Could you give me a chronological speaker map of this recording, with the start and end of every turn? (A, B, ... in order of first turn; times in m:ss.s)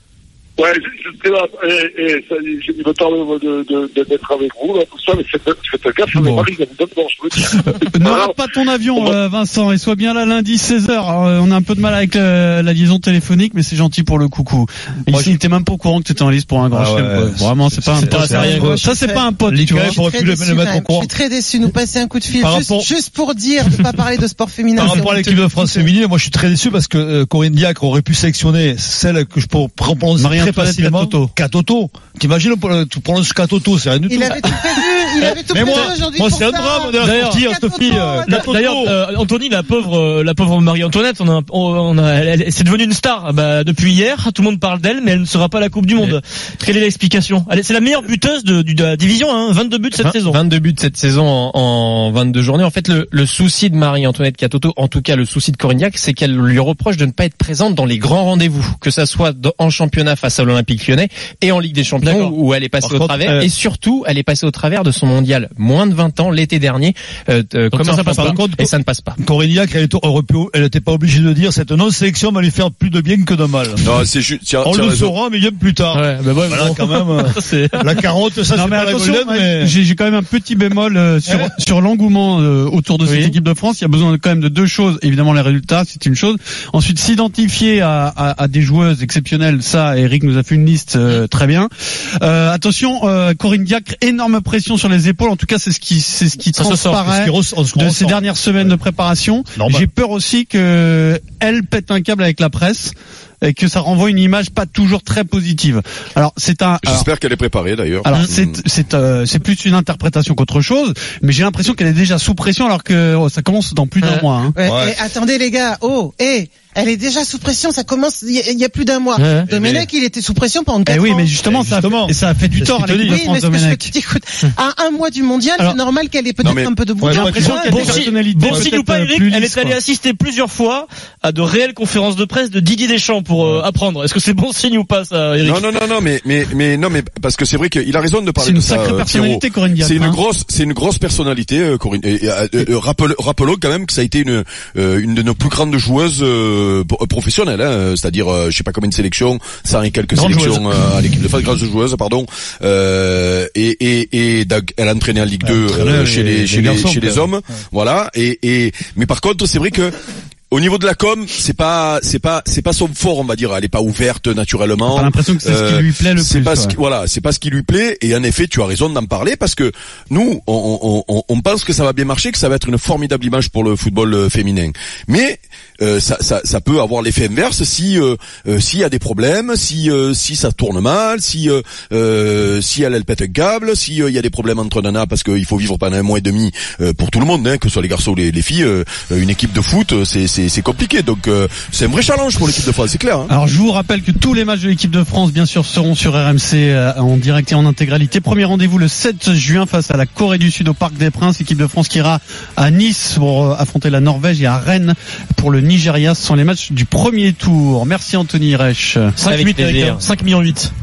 0:00.6-0:08.4 A
0:06.1-0:06.5 B
0:07.6-0:20.0 B
0:15.1-0:15.4 C
0:16.7-0:18.8 C
0:18.0-0:18.7 D
0:18.4-0:19.3 E
0:19.5-0:21.1 C
0:19.9-0:25.9 E
0:22.4-0:22.9 C
0:24.7-0:34.6 C
0:30.2-0:31.3 B
0:34.1-0:38.5 E
0:35.5-0:39.0 C
0:37.0-0:37.4 D
0:38.3-0:50.4 D
0:50.0-1:09.2 F
1:02.0-1:02.3 D
1:02.8-1:03.5 C
1:07.7-1:08.4 D
1:08.2-1:13.8 C
1:13.8-1:15.1 G
1:14.6-1:19.7 C
1:15.9-1:18.0 D
1:18.5-1:31.7 B
1:23.0-1:23.4 D
1:32.2-1:47.1 B
1:36.5-1:37.0 D
1:37.0-1:38.2 C
1:39.5-1:39.9 C
1:46.8-1:48.6 G
1:48.0-1:54.5 B
1:54.6-2:01.3 E
1:54.6-1:55.0 C
1:59.2-1:59.5 D
1:59.5-1:59.9 C
2:00.8-2:03.9 B
2:01.4-2:03.2 C
2:03.0-2:08.0 E
2:06.4-2:06.7 G
2:07.0-2:08.7 C
2:07.1-2:09.8 B
2:07.4-2:15.7 D
2:15.4-2:39.9 G
2:18.4-2:20.2 B
2:30.2-2:30.4 C
2:35.4-2:37.2 C
2:40.5-3:13.3 G
2:44.8-2:46.7 B
3:13.3-3:29.1 B
3:29.2-3:30.7 D
3:29.3-3:30.0 F